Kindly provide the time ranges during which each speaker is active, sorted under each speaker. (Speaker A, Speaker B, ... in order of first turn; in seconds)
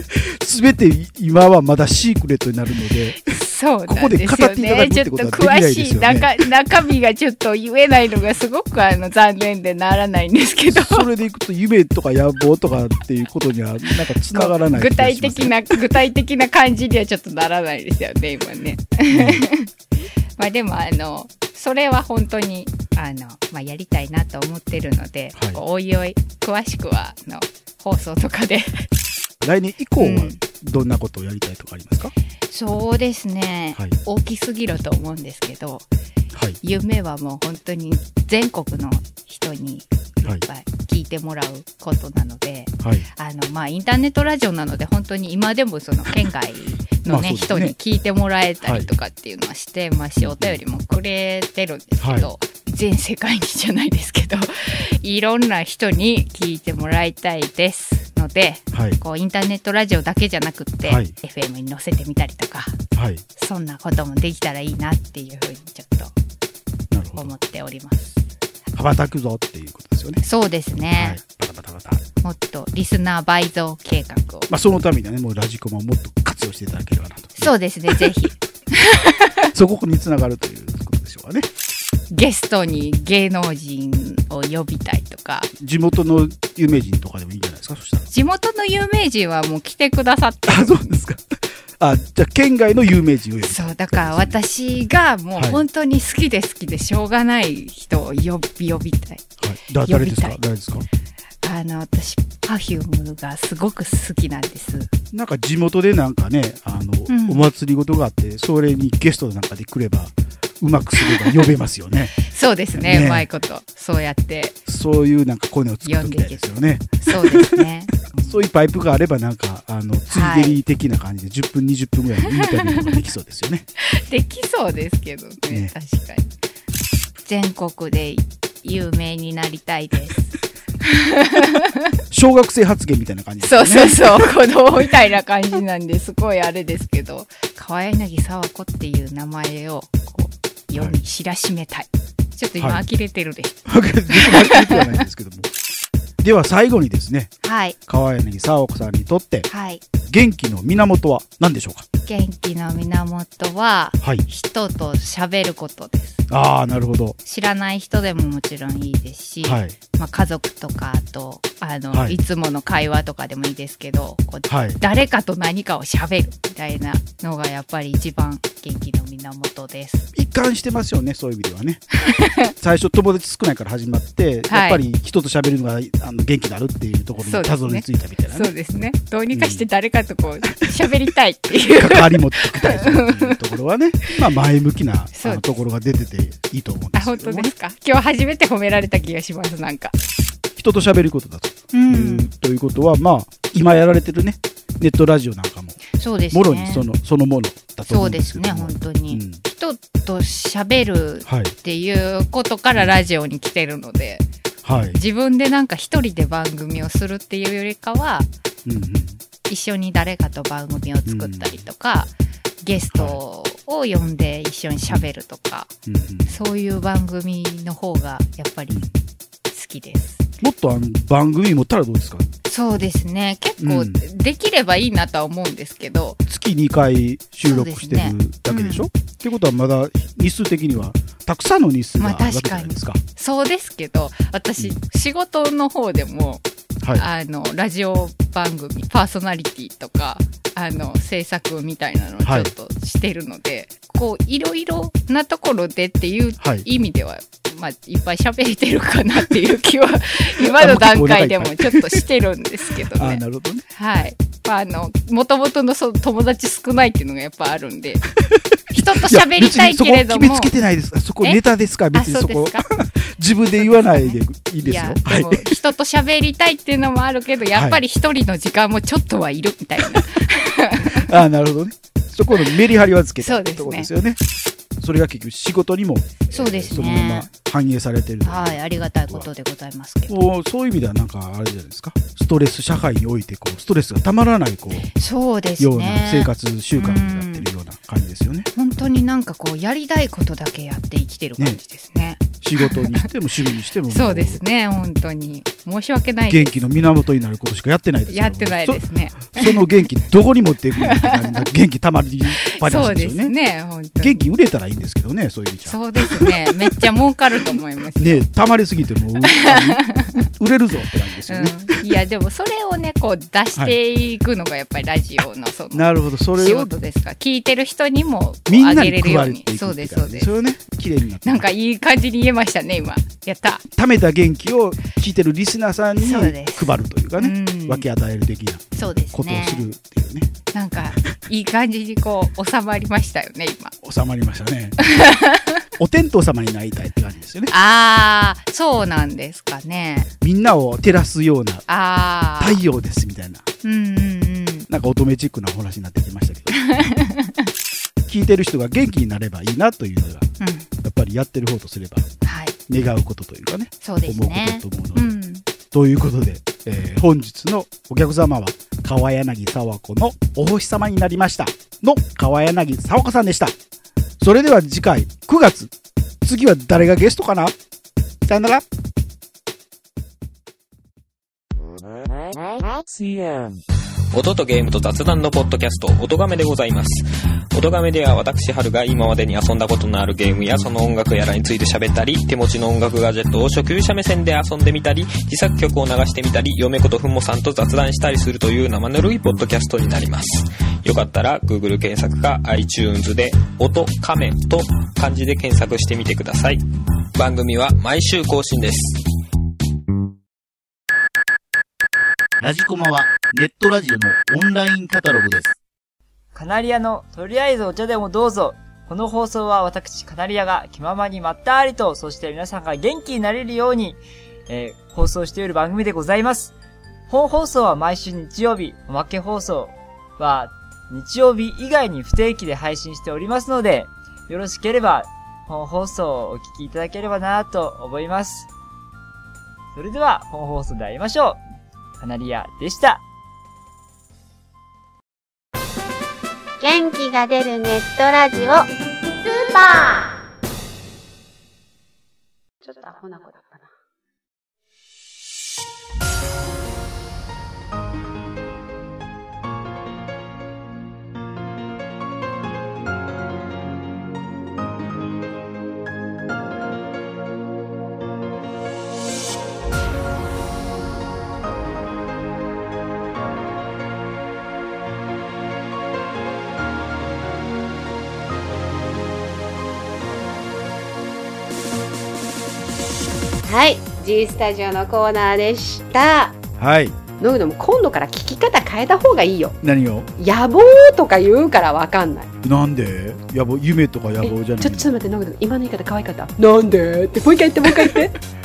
Speaker A: 0.1-3.3, 3.9-6.4, 10.7-15.7, 19.1-19.4, 25.4-25.6, 29.4-32.1, 42.8-43.1, 47.1-47.8, 48.6-48.9, 50.2-50.6, 52.0-52.3, 58.7-59.0, 60.8-61.1, 62.9-63.2, 66.9-67.3, 68.8-70.2, 71.0-72.0, 74.5-78.1, 79.5-81.5, 85.6-88.1, 90.5-94.4, 95.3-95.6, 99.4-100.9, 105.1-112.2, 112.8-113.3, 114.7-117.6, 118.2-123.7, 132.1-134.3, 142.6-142.8, 143.7-145.5, 146.2-147.3, 147.9-149.5, 150.1-151.9, 156.3-157.2, 159.4-159.8, 161.9-162.2, 164.5-164.8, 170.2-171.8, 172.4-178.5, 179.3-179.7, 181.7-187.5, 190.6-199.4, 201.3-201.5, 204.6-205.0, 208.7-209.2, 211.1-211.7, 212.9-213.2, 215.9-216.4, 220.4-222.3, 223.6-224.0, 226.3-233.0, 236.8-237.1, 242.2-242.5, 246.4-246.7, 250.6-252.0, 252.9-253.6, 258.7-265.6, 267.5-267.8, 270.9-274.2, 274.8-279.3, 280.1-284.9, 285.6-288.5, 292.4-294.4, 296.3-303.4, 303.9-306.3, 308.0-309.8, 310.4-311.8, 315.7-316.8, 318.5-321.5, 323.7-330.3, 333.8-334.9, 335.8-337.5, 340.2-341.7, 342.4-343.4, 344.7-346.6, 348.1-350.3, 350.8-352.1, 352.7-355.1, 355.7-363.5, 364.2-365.7, 366.2-367.6, 368.2-368.6, 476.6-477.0, 479.6-480.1, 482.4-484.9
Speaker B: 3.2-11.1, 14.3-19.7, 20.4-28.9, 30.0-30.4, 32.5-35.9, 36.6-62.8, 63.4-66.1, 67.2-68.2, 70.2-71.2, 72.2-74.5, 77.4-79.4, 82.1-85.5, 88.1-90.9, 93.4-99.2, 99.8-100.4, 101.4-104.9, 107.1-107.5, 112.2-114.6, 115.8-118.4, 120.1-120.6, 122.7-123.0, 123.8-126.3, 127.2-131.6, 133.4-143.6, 144.1-145.0, 147.4-147.8, 149.5-149.8, 152.1-156.2, 157.2-170.1, 172.1-172.5, 174.5-174.8, 177.2-183.4, 185.2-185.6, 186.9-189.9, 191.7-192.3, 195.9-196.9, 197.9-208.3, 209.5-215.7, 216.3-218.8, 219.5-220.2, 222.5-226.2, 227.4-228.9, 232.0-253.2, 253.7-258.1, 258.7-260.5, 261.2-262.6, 263.6-271.0, 273.2-273.9, 276.3-277.3, 278.2-280.2, 284.9-287.5, 288.6-293.1, 293.9-296.5, 298.1-299.9, 300.9-301.4, 302.5-304.3, 305.6-308.3, 309.4-310.2, 311.3-320.3, 321.2-323.6, 326.0-327.9, 328.7-329.7, 330.5-333.7, 334.9-335.6, 337.5-340.1, 341.7-342.6, 343.6-344.7, 346.5-347.4, 350.4-350.7, 352.2-352.6, 353.8-355.4
Speaker C: 374.1-396.6, 397.1-399.0
Speaker D: 402.4-405.6
Speaker E: 406.3-416.6, 417.1-428.5, 429.7-431.4, 432.0-433.0
Speaker F: 436.6-438.7, 439.2-440.1
Speaker G: 442.6-443.7, 473.4-476.4, 477.2-479.6, 480.2-482.3, 484.2-488.2